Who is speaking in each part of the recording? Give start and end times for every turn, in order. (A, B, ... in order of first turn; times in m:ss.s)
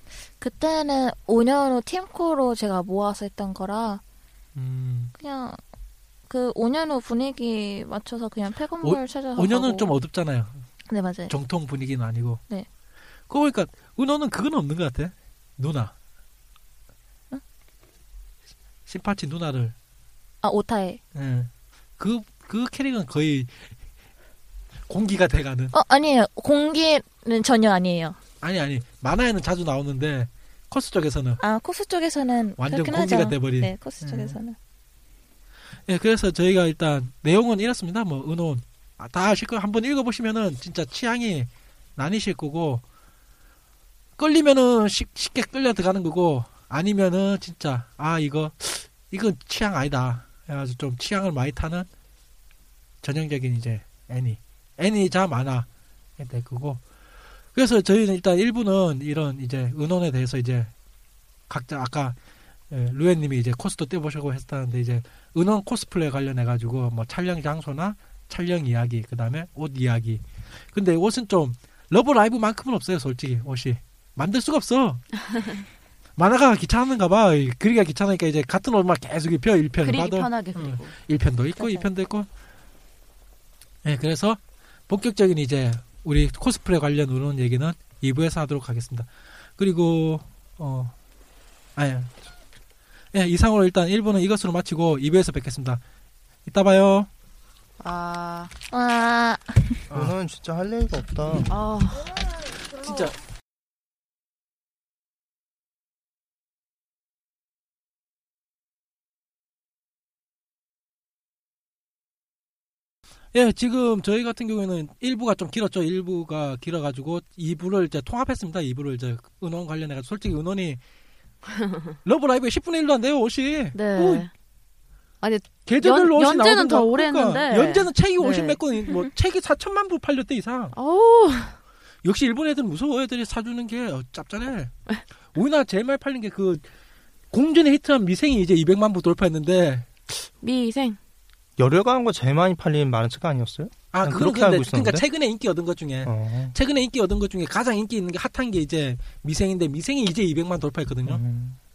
0:00.4-0:04.0 A
0:04.5-0:05.1 B
0:05.2-0:05.6 A
0:06.3-0:09.9 A
0:08.8-0:10.6 B
0:10.9-0:11.3 A
0:11.3-0:12.4 B
0:13.3-0:15.9 B
0:18.8-0:19.7 B
0:20.4-0:21.0 A
0:21.1-0:23.7 B
0:24.9-0:25.7 B
0:25.7-0:28.2 A
0:28.4-0:31.4 B
0:31.4-0:34.6 A
0:32.6-0:34.4 B
0:35.9-0:42.8 B
0:44.2-0:51.9 B
0:53.0-0:55.7 B
0:56.2-0:56.8 B
0:57.5-1:00.7 B
1:01.5-1:02.2 B
1:02.7-1:15.2 B
1:16.2-1:22.3 B
1:19.8-1:21.0 C
1:21.6-1:21.8 A
1:23.8-1:30.9 B
1:31.8-1:32.1 B
1:33.1-1:35.8 B
1:36.4-1:37.1 B
1:37.8-1:38.5 C
1:38.7-1:39.8 A
1:39.9-1:40.1 B
1:39.9-1:41.5 D
1:41.5-1:42.2 C
1:42.8-1:43.1 B
1:53.3-2:00.8 B
2:01.5-2:01.9 C
2:02.0-2:04.2 B
2:03.7-2:04.3 C
2:05.2-2:08.8 C
2:05.6-2:10.7 B
2:10.7-2:11.6 C
2:12.0-2:14.7 B
2:15.3-2:16.6 B
2:17.3-2:20.2 B
2:20.4-2:21.0 C
2:21.6-2:25.0 D
2:23.9-2:31.2 B
2:26.0-2:26.5 D
2:31.0-2:31.6 D